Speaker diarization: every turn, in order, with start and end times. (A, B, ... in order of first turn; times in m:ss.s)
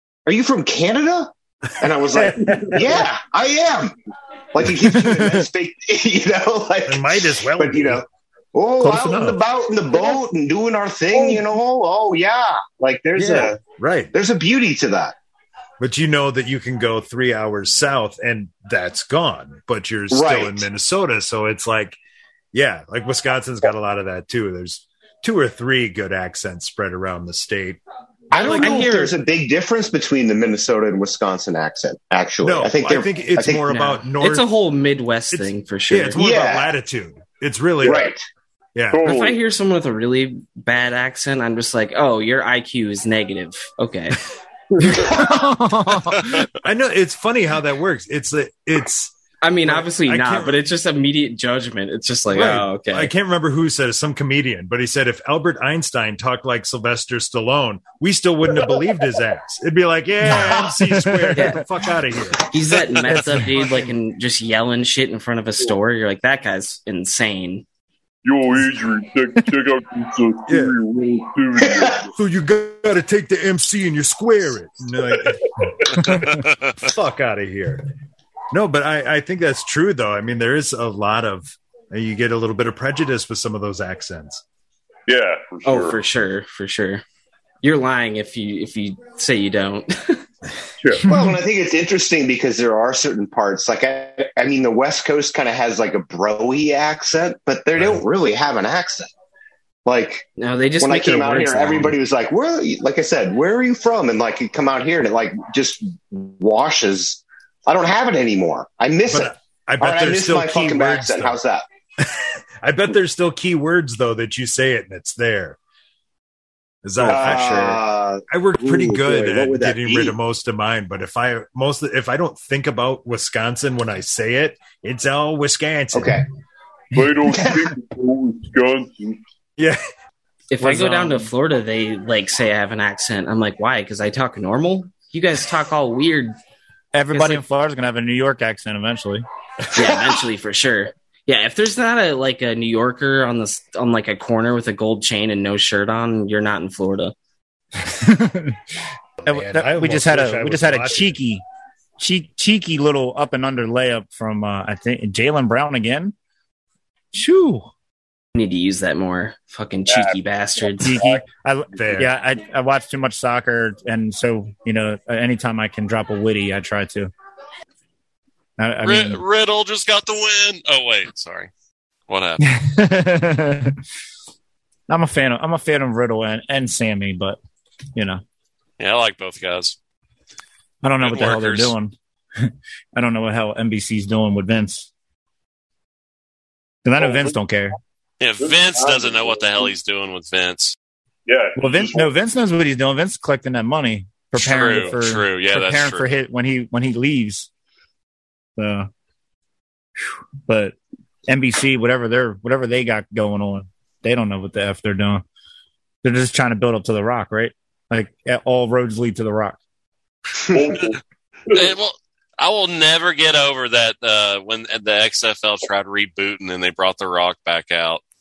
0:00.2-0:03.9 A
0:02.1-0:03.0 B
0:02.4-0:02.7 C
0:04.5-0:13.6 A
0:04.8-0:05.4 D
0:06.8-0:08.0 B
0:08.8-0:09.4 B
0:13.1-0:14.1 B
0:14.1-0:15.1 A
0:15.8-0:22.0 B
0:20.1-0:20.7 A
0:22.5-0:27.8 B
0:28.3-0:33.7 A
0:28.3-0:28.9 B
0:28.6-0:29.1 E
0:32.4-0:34.5 B
0:33.7-0:36.2 E
0:35.3-0:38.1 B
0:36.2-0:36.7 A
0:37.8-0:38.2 A
0:38.7-0:39.1 B
0:38.9-0:39.4 C
0:39.0-0:44.2 E
0:44.8-0:46.4 D
0:45.9-0:50.6 B
0:49.4-0:53.1 E
0:52.3-1:02.8 B
1:00.3-1:01.6 D
1:00.3-1:00.7 A
1:01.3-1:01.6 E
1:02.5-1:07.6 E
1:03.0-1:03.6 D
1:08.2-1:12.1 C
1:10.5-1:10.8 B
1:11.6-1:11.9 A
1:12.1-1:17.9 B
1:15.2-1:16.0 C
1:16.0-1:16.3 D
1:18.5-1:24.4 B
1:25.1-1:26.0 C
1:25.6-1:27.0 E
1:27.6-1:30.2 E
1:30.8-1:31.1 C
1:31.0-1:39.1 A
1:37.8-1:38.0 B
1:39.8-1:40.2 A
1:40.4-1:42.0 E
1:40.8-1:51.6 A
1:49.1-1:51.4 B
1:52.0-1:55.6 B
1:56.8-2:06.2 B
1:57.0-2:00.2 A
1:57.0-1:57.6 C
2:05.9-2:06.2 A
2:06.9-2:09.2 C
2:10.5-2:16.4 E
2:10.6-2:11.3 D
2:16.9-2:19.2 D
2:17.1-2:17.4 E
2:19.7-2:27.1 E
2:27.8-2:28.6 D
2:29.2-2:31.2 B
2:29.2-2:31.4 D
2:32.0-2:36.1 D
2:37.1-2:37.7 D
2:38.3-2:41.1 E
2:39.9-2:40.2 C
2:40.8-2:47.1 D
2:41.8-2:42.1 B
2:48.6-2:49.2 D
2:48.8-2:51.5 F
2:52.1-2:52.4 F
2:52.4-2:53.8 D
2:54.9-2:57.4 D
2:57.9-2:58.2 D
2:58.8-2:59.8 F
3:00.8-3:04.9 D
3:01.0-3:01.7 F
3:06.8-3:07.8 D
3:07.0-3:07.3 C
3:08.2-3:10.7 F
3:08.4-3:09.7 C
3:11.2-3:12.1 C
3:11.6-3:17.5 D
3:14.3-3:16.1 F
3:18.6-3:18.9 D
3:20.4-3:20.7 D
3:21.3-3:25.2 D
3:26.0-3:29.6 D
3:30.5-3:31.7 C
3:31.5-3:38.0 F